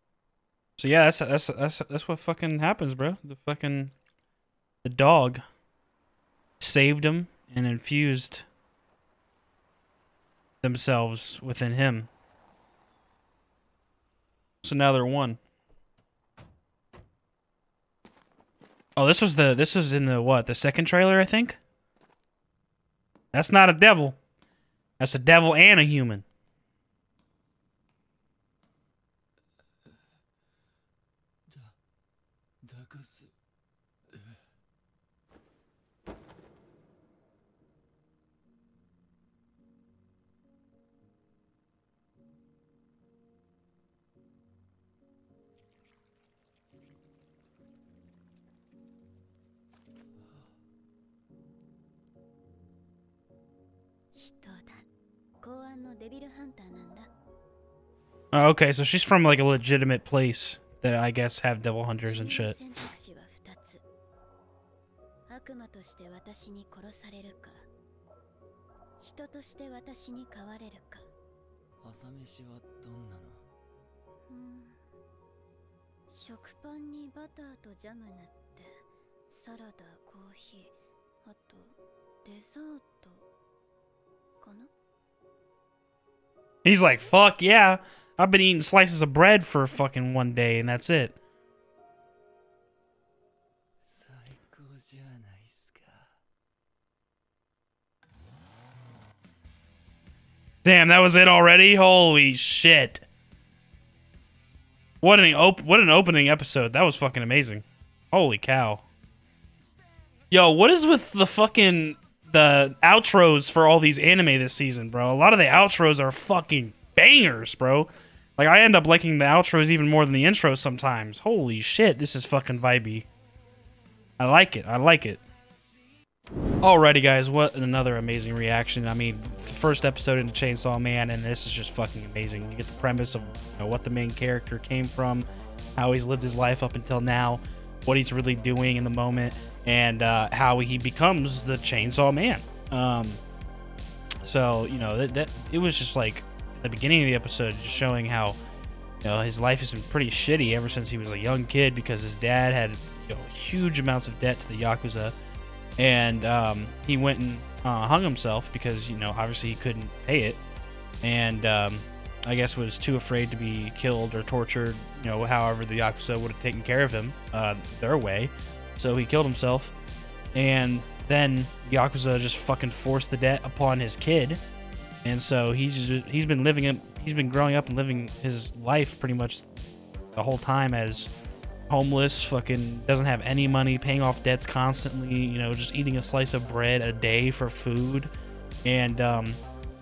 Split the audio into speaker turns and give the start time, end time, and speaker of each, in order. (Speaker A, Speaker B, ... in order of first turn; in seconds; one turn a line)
Speaker A: 0.8-3.9
Speaker A: 4.8-5.4
Speaker A: 6.6-8.5
Speaker A: 10.6-12.1
Speaker A: 14.6-15.4
Speaker A: 19.0-21.6
Speaker A: 23.3-24.2
Speaker A: 25.0-26.2
Speaker B: 31.5-31.8
Speaker B: 32.6-33.3
Speaker C: 54.1-54.9
Speaker C: 55.4-57.1
Speaker A: 58.3-62.6
Speaker C: 62.0-63.8
Speaker C: 65.3-67.7
Speaker C: 69.0-71.1
Speaker B: 71.8-73.4
Speaker C: 74.3-74.8
Speaker C: 76.1-83.3
Speaker C: 84.4-84.7
Speaker A: 86.6-91.2
Speaker B: 93.8-96.2
Speaker A: 100.6-103.1
Speaker A: 105.0-108.8
Speaker A: 110.3-123.1
Speaker A: 124.2-125.2
Speaker A: 126.6-143.2
Speaker A: 144.2-148.4
Speaker A: 149.0-155.2
Speaker A: 155.8-160.4
Speaker A: 161.0-169.7
Speaker A: 170.3-174.4
Speaker A: 175.0-179.4
Speaker A: 180.2-181.1
Speaker A: 181.7-188.1
Speaker A: 188.7-189.4